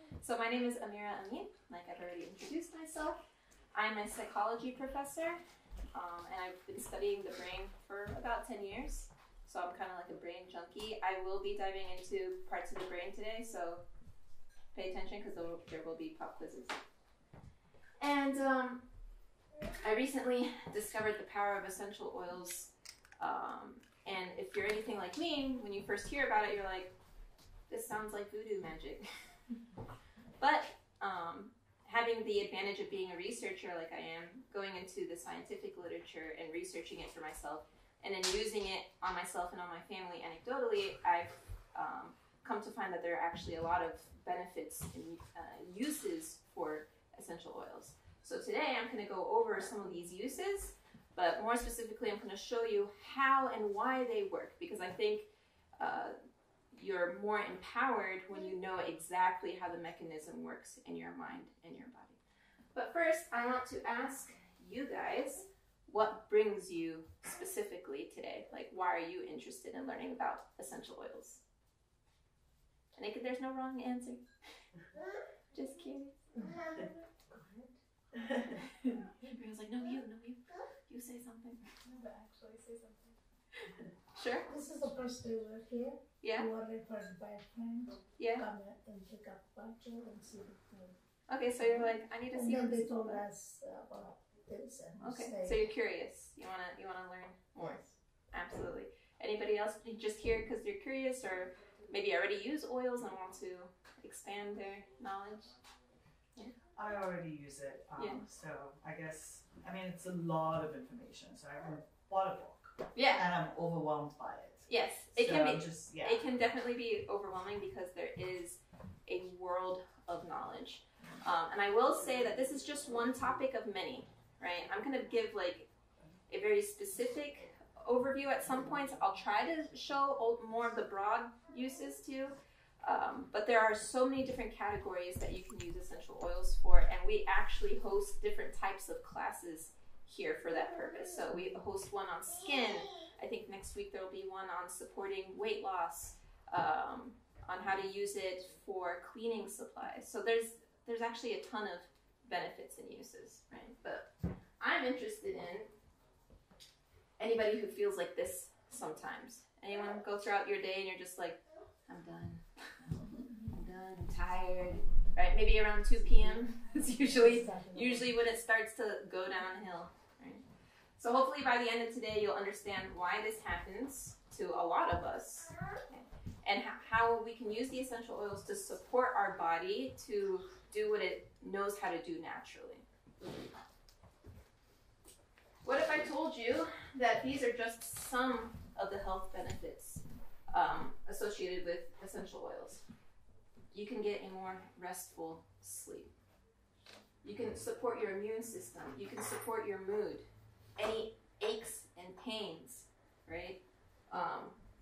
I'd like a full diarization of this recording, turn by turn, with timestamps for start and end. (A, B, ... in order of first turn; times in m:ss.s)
0:00.2-0:03.2 A
0:03.7-0:05.4 A
0:05.9-0:13.8 A
0:14.7-0:16.8 A
0:18.0-0:18.8 A
0:19.8-0:26.9 A
0:27.7-0:29.1 A
0:30.4-0:56.2 A
0:56.7-1:02.2 A
1:02.8-1:11.4 A
1:13.0-1:14.2 A
1:15.5-1:16.2 A
1:16.4-1:19.3 B
1:19.2-1:21.6 A
1:21.8-1:23.8 B
1:24.2-1:24.5 A
1:24.5-1:31.0 B
1:26.2-1:26.5 A
1:28.2-1:28.5 A
1:31.3-1:33.2 A
1:31.6-1:35.7 B
1:35.0-1:45.6 A
1:46.7-1:56.2 C
1:48.0-1:48.3 A
1:52.9-1:53.3 A
1:54.7-2:05.7 A
2:06.3-2:35.7 A
2:37.2-2:42.7 A
2:43.5-2:50.4 A
2:46.1-2:48.2 B
2:51.0-3:02.8 A
3:05.6-3:12.8 A
3:13.7-3:16.1 A
3:17.2-3:20.3 A
3:20.8-3:24.6 A